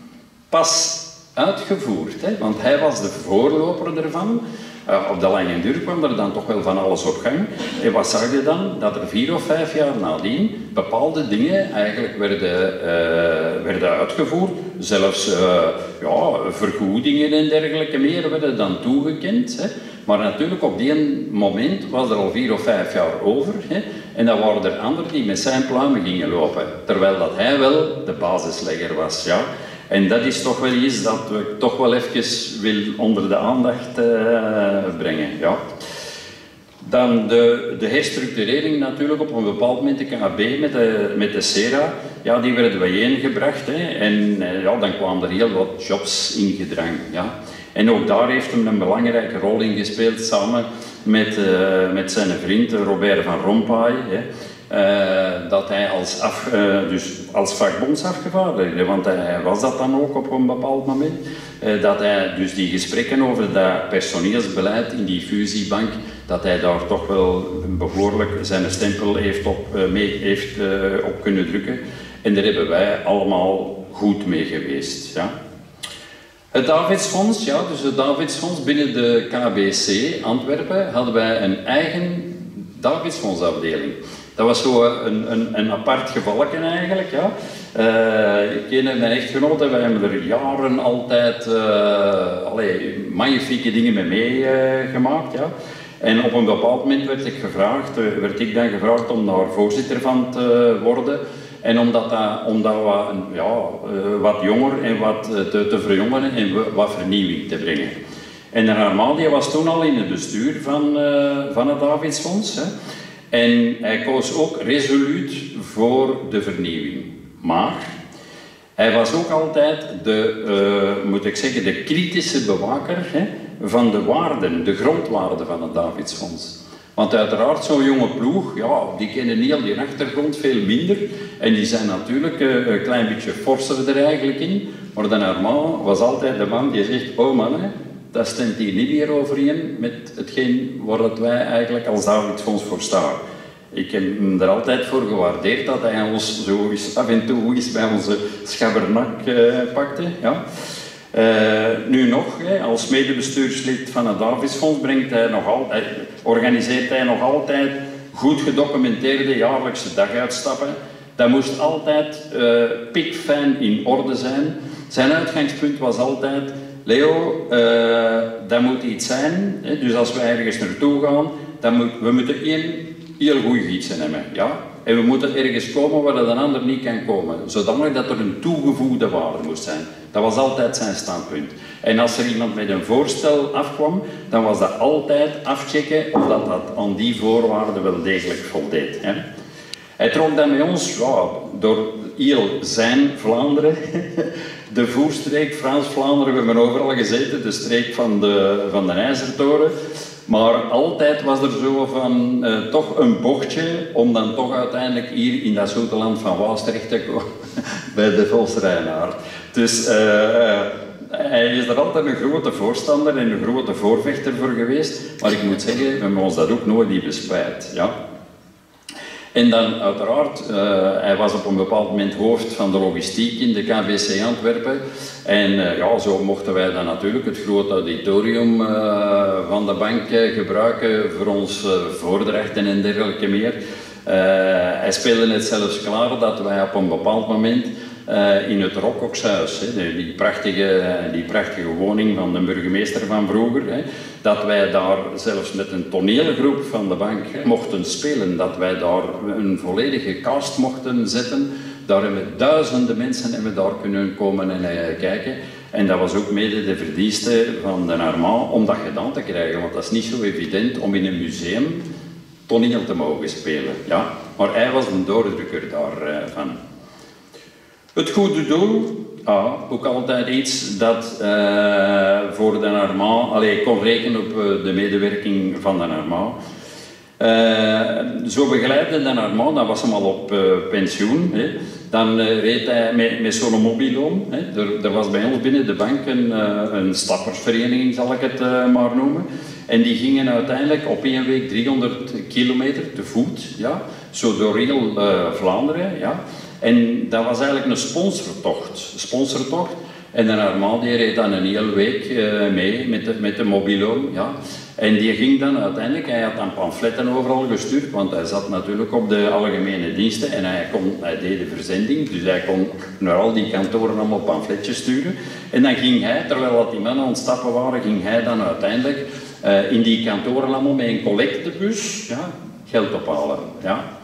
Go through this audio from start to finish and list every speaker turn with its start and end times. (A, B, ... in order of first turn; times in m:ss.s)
0:00.5-0:35.6 A
0:36.8-1:15.3 A
1:16.5-1:48.0 A
1:48.5-1:52.7 A
1:53.3-1:58.0 A
1:58.8-2:23.2 A
2:23.7-2:30.4 A
2:31.1-3:09.2 A
3:10.0-3:19.7 A
3:20.3-3:37.9 A
3:39.3-4:21.8 A
4:22.5-4:26.6 A
4:28.0-4:36.4 A
4:37.2-5:23.9 A